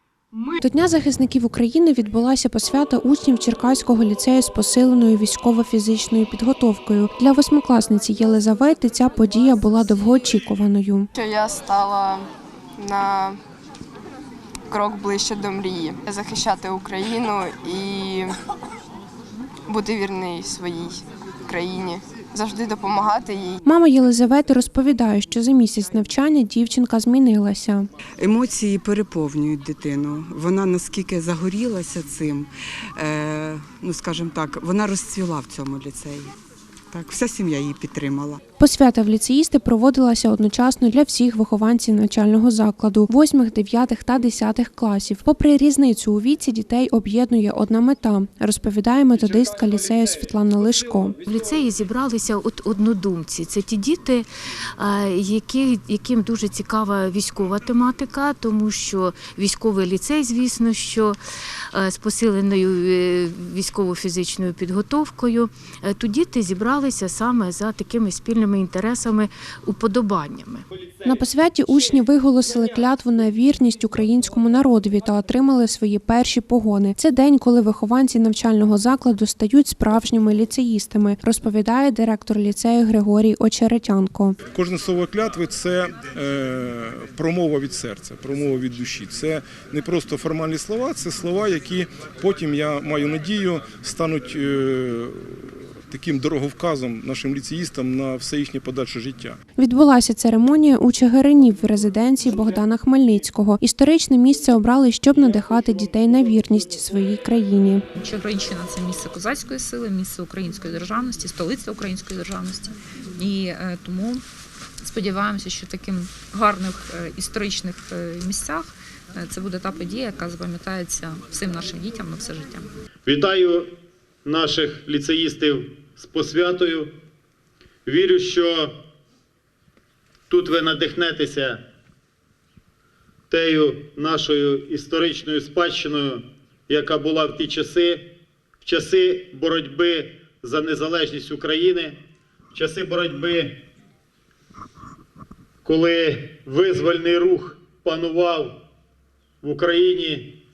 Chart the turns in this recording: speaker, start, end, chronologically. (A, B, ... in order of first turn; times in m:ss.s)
0:00.6-0:11.1 A
0:11.2-0:13.4 B
0:14.7-0:18.4 B
0:19.7-0:23.6 B
0:23.6-0:27.9 A
0:28.2-0:36.3 C
0:36.9-0:38.4 C
0:38.6-0:51.2 A
0:51.2-0:54.3 D
0:54.8-1:01.2 D
1:01.7-1:10.7 D
1:11.0-1:24.4 A
1:24.5-1:39.4 E
1:39.6-1:47.8 A
1:48.0-1:54.2 F
1:54.8-2:02.7 F
2:03.1-2:03.7 G
2:04.2-2:06.9 G
2:07.9-2:08.7 G
2:10.3-2:11.6 G
2:13.3-2:18.0 G
2:18.6-2:22.0 G
2:22.5-2:23.6 G
2:25.6-2:28.6 G
2:29.4-2:30.3 G